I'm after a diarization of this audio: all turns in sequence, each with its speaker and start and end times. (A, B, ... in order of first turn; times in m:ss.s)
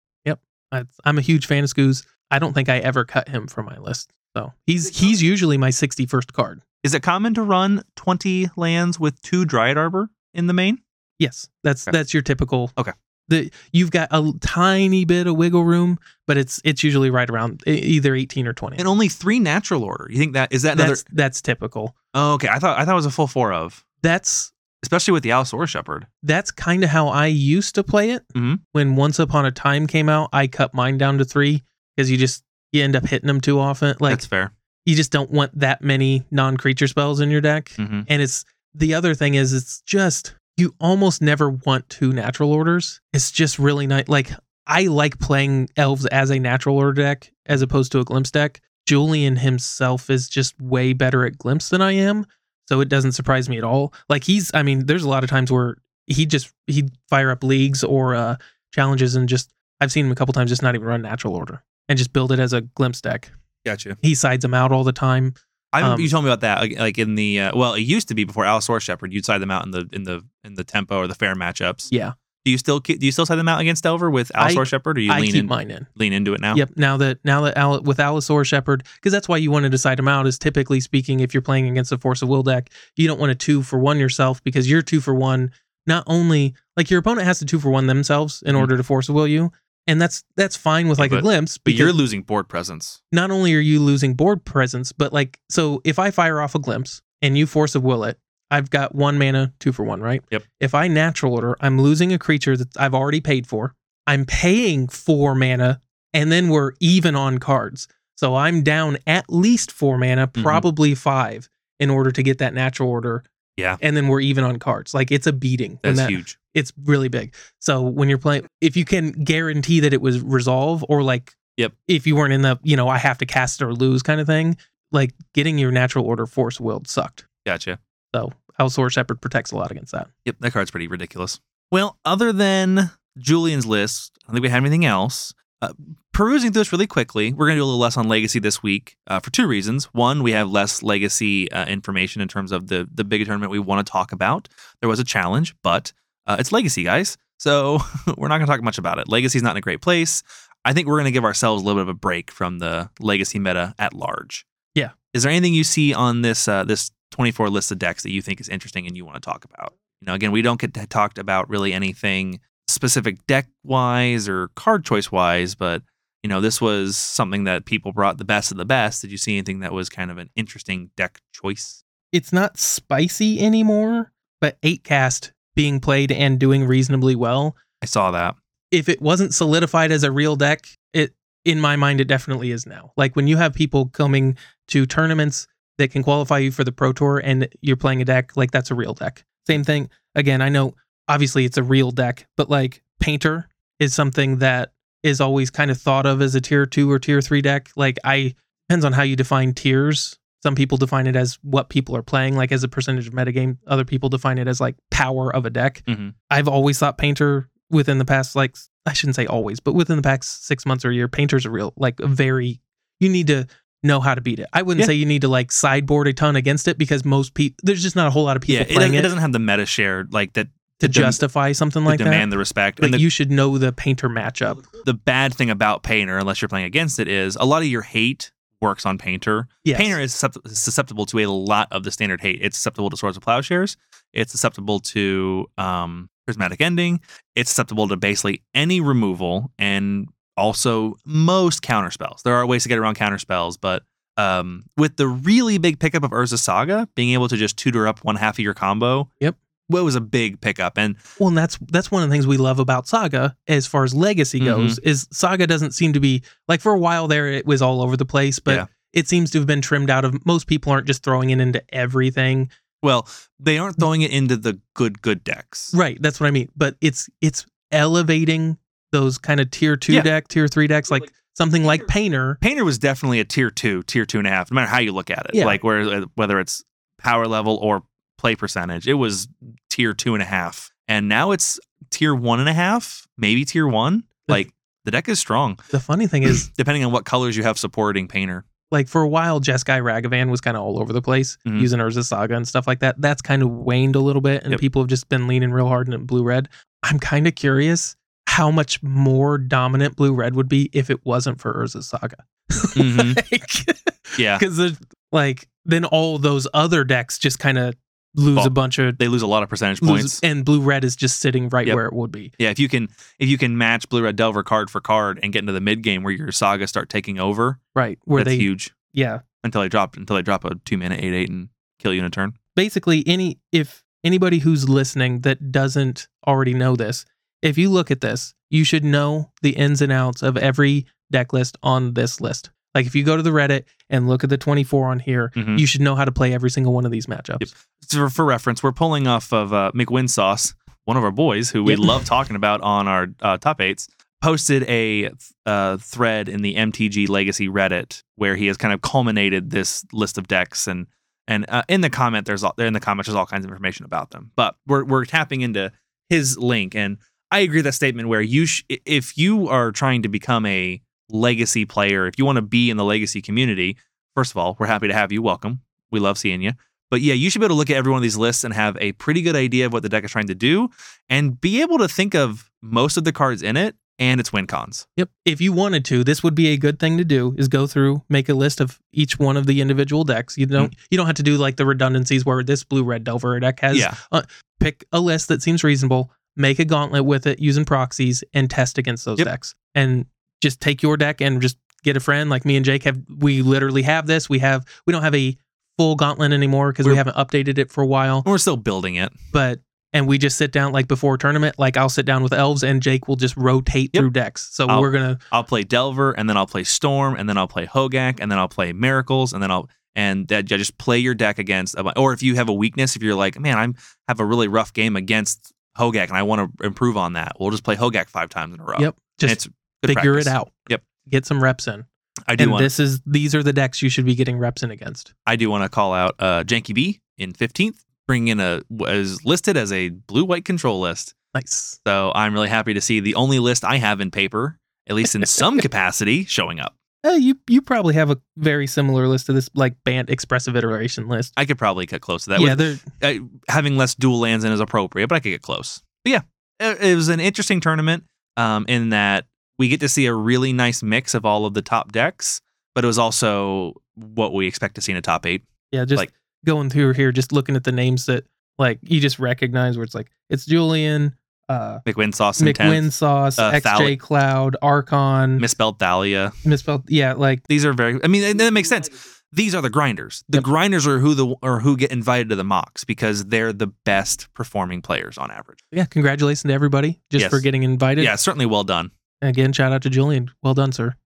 0:00.2-0:06.6 A
0:06.8-0:10.8 B
0:11.2-0:12.7 A
0:13.3-0:18.8 A
0:18.8-0:21.0 B
0:20.7-0:21.9 A
0:22.1-0:23.8 B
0:24.0-0:24.5 A
0:24.8-0:26.1 B
0:26.2-0:34.2 A
0:28.3-0:28.6 B
0:34.1-0:34.5 B
0:34.8-1:03.3 A
0:37.8-0:38.1 B
1:03.6-1:04.0 B
1:04.0-1:06.1 A
1:05.7-1:11.9 B
1:12.4-1:16.6 B
1:14.4-1:15.9 A
1:16.5-1:32.0 A
1:31.0-1:33.0 B
1:33.1-1:53.2 A
1:50.4-1:50.6 B
1:53.8-2:07.2 A
1:55.8-1:56.4 B
2:07.4-2:07.8 B
2:08.1-2:10.1 A
2:10.2-2:34.4 B
2:35.1-2:51.8 B
2:52.1-2:57.6 A
2:57.8-2:58.4 B
2:58.7-3:39.1 A
3:25.9-3:26.1 B
3:38.5-3:41.2 B
3:40.8-3:42.2 A
3:41.9-3:43.0 B
3:42.8-3:44.7 A
3:44.7-4:09.1 B
3:49.6-3:50.0 A
4:09.7-4:11.0 B
4:11.2-4:22.5 A
4:14.4-4:14.8 B
4:22.8-4:25.7 B
4:25.7-4:32.4 A
4:32.4-4:45.6 B
4:35.3-4:35.6 A
4:45.7-4:46.5 A
4:46.2-4:48.4 B
4:48.7-5:09.0 A
5:02.8-5:03.2 B
5:04.2-5:04.4 B
5:08.3-5:10.2 B
5:09.8-5:12.3 A
5:12.4-5:17.6 B
5:17.7-5:19.2 A
5:18.1-5:18.7 B
5:19.4-5:22.3 B
5:22.5-5:37.5 A
5:35.4-5:35.6 B
5:37.4-6:14.8 B
5:41.6-5:42.0 A
6:15.0-6:38.3 A
6:38.2-6:39.1 B
6:39.3-6:45.2 A
6:44.7-7:00.8 B
6:58.8-7:01.8 A
7:02.3-7:02.7 B
7:02.4-7:05.1 A
7:05.2-7:11.1 B
7:11.3-7:11.8 A
7:11.8-7:16.7 B
7:17.0-7:21.3 A
7:21.4-7:36.1 B
7:22.3-7:22.8 A
7:35.7-7:41.8 A
7:41.8-7:44.0 B
7:42.4-7:45.4 A
7:45.4-7:46.3 B
7:46.4-7:47.4 A
7:47.5-7:55.6 B
7:55.7-7:58.1 A
7:57.2-7:57.4 B
7:58.0-7:58.9 B
7:59.2-8:01.0 A